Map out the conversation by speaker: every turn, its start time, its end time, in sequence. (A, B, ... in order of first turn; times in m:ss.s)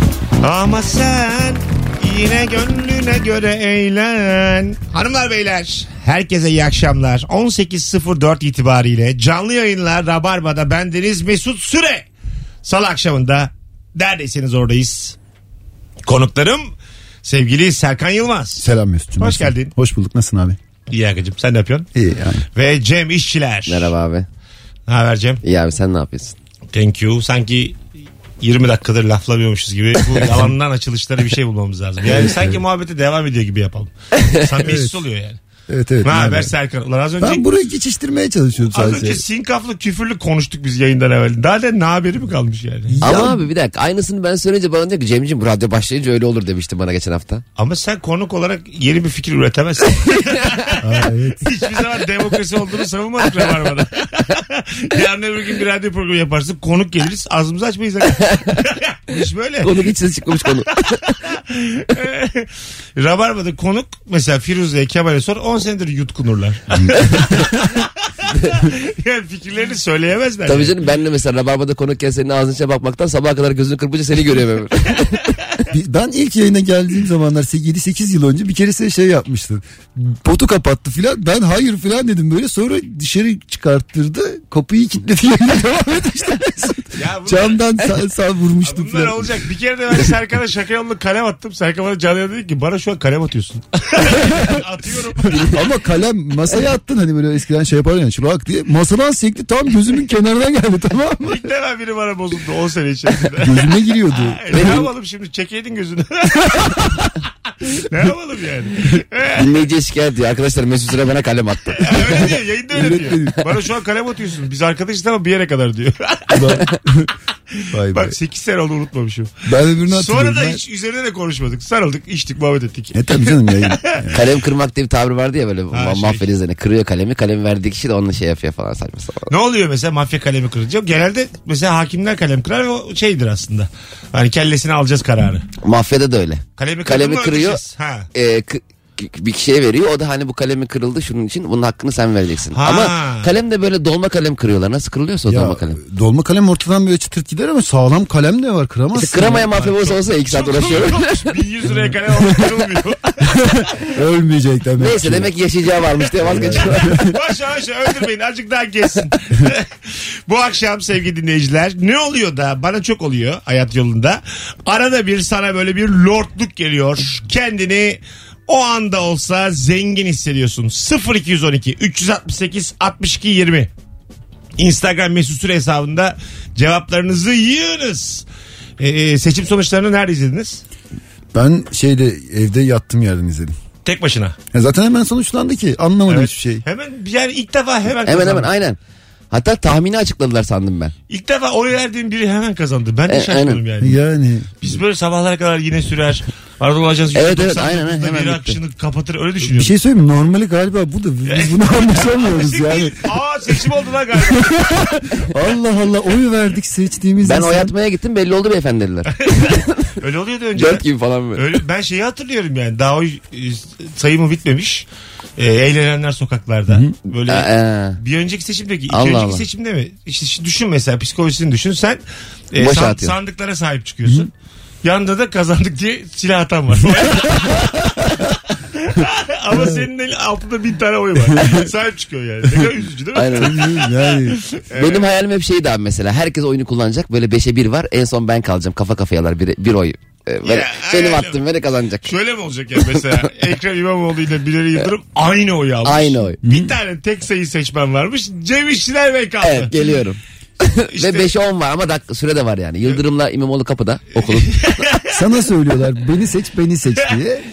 0:00.4-0:12.1 A
0:12.6-0:15.2 A
0:16.1-0:18.7 A
0:18.6-0:20.6 B
0:19.2-0:19.7 A
0:20.9-0:21.9 A
0:22.0-0:22.4 B
0:22.6-0:23.9 A
0:23.7-0:24.3 C
0:24.9-0:25.4 A
0:25.4-0:26.4 C
0:26.7-0:27.8 A
0:28.4-0:35.4 A
0:32.1-0:32.6 B
0:34.6-0:35.0 B
0:35.7-0:36.5 B
0:36.0-0:37.4 A
0:37.2-0:39.2 B
0:38.7-0:43.0 A
0:42.9-0:43.5 B
0:43.0-0:47.4 C
0:47.6-0:50.8 A
0:50.8-0:51.4 B
0:51.4-0:59.8 A
0:58.1-0:58.6 C
0:59.6-1:01.2 C
1:01.3-1:10.7 A
1:06.9-1:07.4 B
1:10.5-1:15.4 C
1:15.7-1:29.4 B
1:27.0-1:27.8 A
1:28.6-1:35.6 A
1:34.0-1:34.6 B
1:35.4-1:41.4 B
1:41.2-1:47.1 A
1:43.4-1:44.8 B
1:44.5-1:44.9 C
1:47.6-1:49.6 A
1:49.4-1:52.3 C
1:51.8-1:56.8 A
1:52.7-1:53.5 B
1:56.3-1:57.1 B
1:57.6-2:04.0 A
1:57.7-1:58.2 B
1:59.4-2:00.6 B
2:02.9-2:04.2 B
2:04.1-2:09.3 C
2:05.7-2:06.2 A
2:09.3-2:15.5 A
2:15.6-2:17.6 C
2:16.6-2:18.1 A
2:18.1-2:25.8 C
2:22.5-2:23.3 A
2:25.3-2:29.5 B
2:29.0-2:31.2 C
2:29.2-2:34.0 A
2:31.8-2:32.2 B
2:33.2-2:35.3 B
2:34.8-2:37.1 C
2:36.2-2:37.1 B
2:36.3-2:53.7 A
2:54.6-2:58.2 A
2:58.8-3:00.6 A
3:01.3-3:03.6 B
3:03.8-3:04.4 A
3:04.5-3:06.6 B
3:06.1-3:08.5 A
3:08.1-3:08.8 C
3:09.3-3:10.9 C
3:11.1-3:14.0 A
3:13.1-3:13.6 C
3:13.8-3:14.5 B
3:14.6-3:19.8 A
3:17.1-3:18.6 C
3:19.4-3:23.0 B
3:21.3-3:25.0 A
3:24.3-3:27.7 B
3:27.2-3:29.9 C
3:30.0-3:30.8 A
3:30.6-3:31.5 C
3:31.4-3:34.9 A
3:35.4-3:42.0 A
3:36.7-3:36.9 B
3:37.3-3:38.0 C
3:38.9-3:39.4 C
3:42.5-3:44.3 A
3:42.6-3:43.1 C
3:44.8-3:55.0 A
3:47.2-3:48.0 B
3:49.5-3:49.9 B
3:51.3-3:51.6 B
3:53.2-3:53.6 C
3:53.4-3:54.4 B
3:54.8-4:02.1 C
4:00.4-4:01.4 A
4:02.0-4:09.7 A
4:02.8-4:03.0 C
4:05.8-4:06.4 C
4:06.4-4:06.7 B
4:09.4-4:14.9 C
4:10.9-4:11.3 A
4:14.2-4:15.2 A
4:15.1-4:17.4 B